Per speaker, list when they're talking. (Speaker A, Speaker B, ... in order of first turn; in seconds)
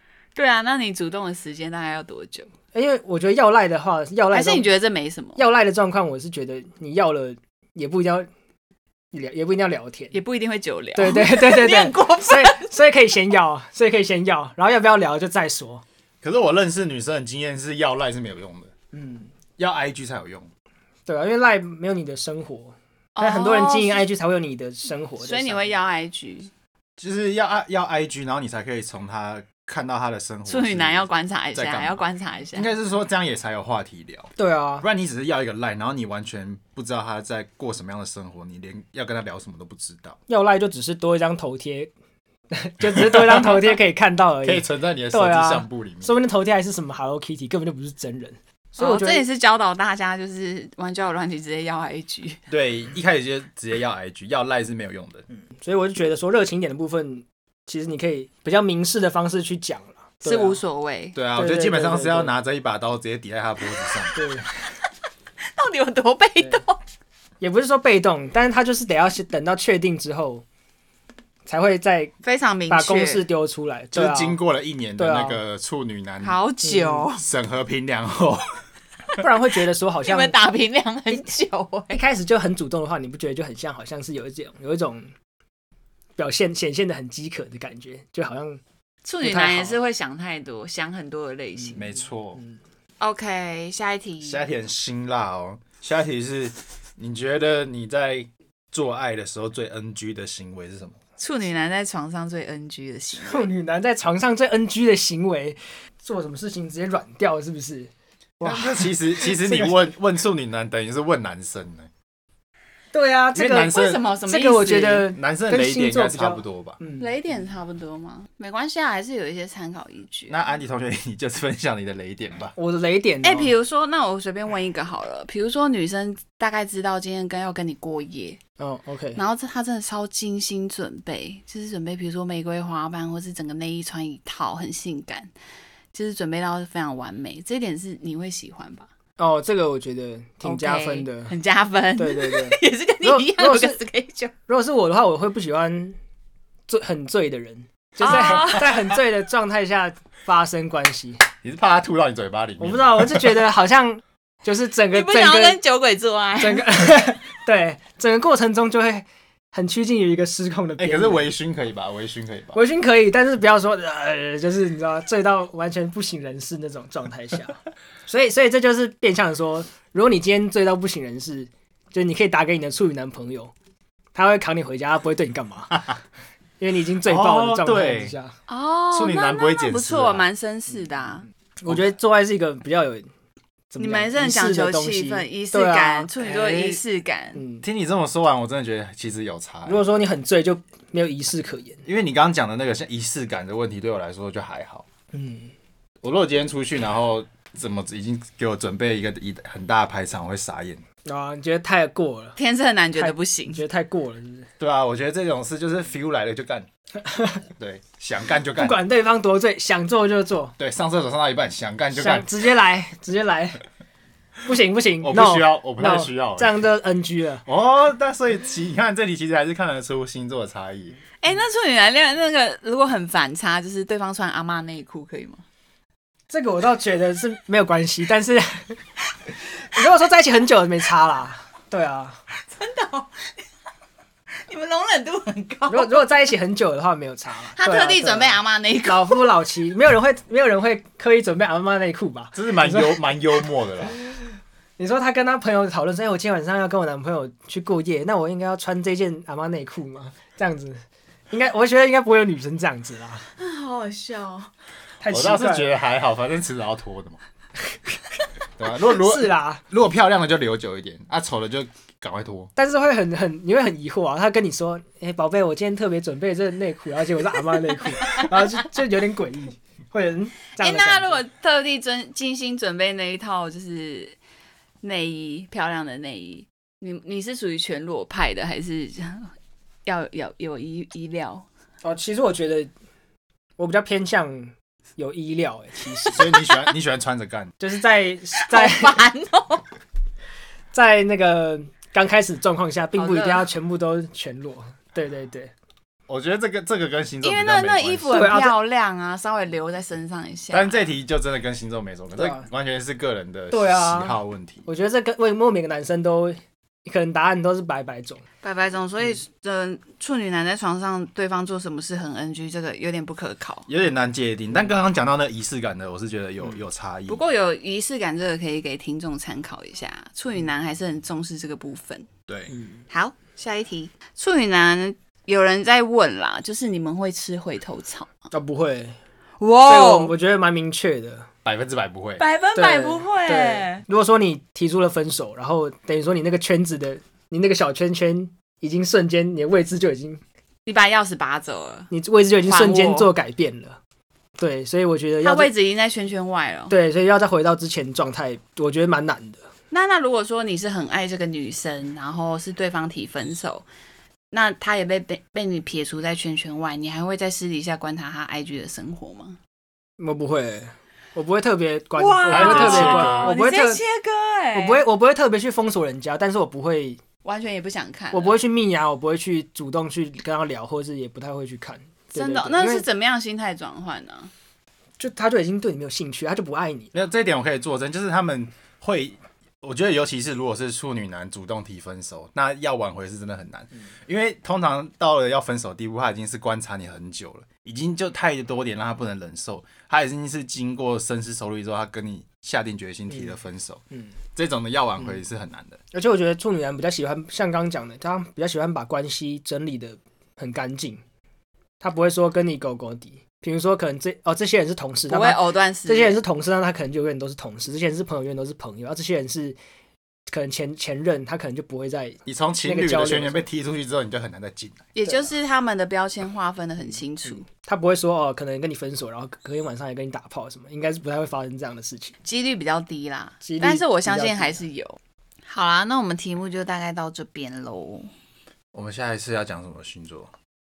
Speaker A: 0.3-2.5, 4.3-5.4, 10.1-12.7, 23.2-24.1, 25.2-26.5, 30.5-32.7, 48.8-52.4, 60.2-61.2, 65.4-66.8, 72.2-73.3, 76.2-77.2, 80.0-82.0, 89.0-91.8, 93.0-94.4, 101.2-103.5, 113.5-115.1, 117.0-120.4, 123.2-128.4, 129.2-135.3, 135.9-138.9, 140.4-144.3, 148.0-148.8, 154.9-156.8, 178.5-181.3, 183.8-187.4, 202.4-203.6, 221.2-225.4, 232.4-233.3, 234.3-236.2, 237.5-239.3, 253.4-254.5, 270.6-274.2, 274.8-279.3, 279.9-281.5, 288.5-289.6, 293.0-293.5, 297.2-300.9, 308.4-313.7, 317.1-322.1, 322.9-328.2, 329.4-330.1, 332.2-333.8, 340.7-341.9, 342.4-343.1, 345.2-346.7, 349.7-353.7, 354.3-359.4, 362.0-364.8, 367.2-368.4, 372.1-374.3, 405.1-406.2, 415.0-417.4, 422.2-428.1
Speaker B: 2.7-4.7, 5.4-8.3, 9.1-10.2, 10.9-15.8, 18.9-19.3, 21.1-25.7, 34.4-34.9, 40.3-41.9, 42.5-49.2, 55.6-60.6, 61.4-62.3, 64.1-64.5, 67.4-70.4, 71.5-72.1, 72.7-74.4, 75.0-75.4, 76.6-77.1, 79.2-80.4, 81.9-85.1, 86.2-88.6, 89.2-89.8, 103.2-109.8, 112.9-113.8, 114.3-117.1, 122.6-123.5, 128.6-129.2, 139.2-141.3, 142.0-143.8, 144.5-146.0, 146.7-151.2, 152.6-155.6, 156.4-161.3, 162.5-173.5, 174.2-175.8, 176.6-178.4, 181.6-183.1, 183.7-186.8, 187.3-187.6, 189.7-191.8, 195.1-195.5, 201.1-202.4, 202.9-204.5, 207.0-207.4, 208.6-210.5, 211.9-213.6, 214.4-217.4, 226.3-228.8, 229.7-232.2, 235.7-243.0, 244.8-253.3, 255.0-255.7, 258.9-259.6, 262.6-271.2, 281.8-282.7, 283.6-286.2, 287.6-289.0, 290.7-295.5, 298.1-298.6, 302.2-302.5, 303.5-308.2, 328.3-329.0, 329.6-331.3, 332.6-340.2, 341.9-343.8, 344.4-345.5, 346.7-349.4, 360.0-363.8, 364.5-367.0, 368.1-372.8, 375.0-376.9, 395.9-401.0, 401.8-409.6, 410.3-413.4, 417.5-422.1, 423.4-424.6
Speaker C: 16.2-18.7, 19.6-20.5, 27.0-32.0, 32.5-40.2, 42.9-43.6, 44.4-46.1, 52.5-55.2, 61.1-64.2, 73.9-76.4, 77.2-78.5, 91.8-92.4, 94.2-101.0, 108.4-111.9, 113.3-114.1, 115.1-116.8, 120.3-122.5, 151.4-153.3, 160.8-162.6, 177.1-178.1, 178.9-180.3, 187.6-189.8, 191.8-194.8, 196.0-200.8, 204.6-206.7, 207.6-208.8, 210.6-212.3, 215.0-216.6, 217.5-221.0, 242.3-243.9, 255.1-257.2, 258.6-262.5, 286.1-287.5, 296.1-298.3, 300.5-304.6, 313.7-317.2, 322.3-322.5, 331.4-332.2, 362.3-363.3, 376.9-393.8, 394.4-395.8, 412.2-414.9, 428.7-430.3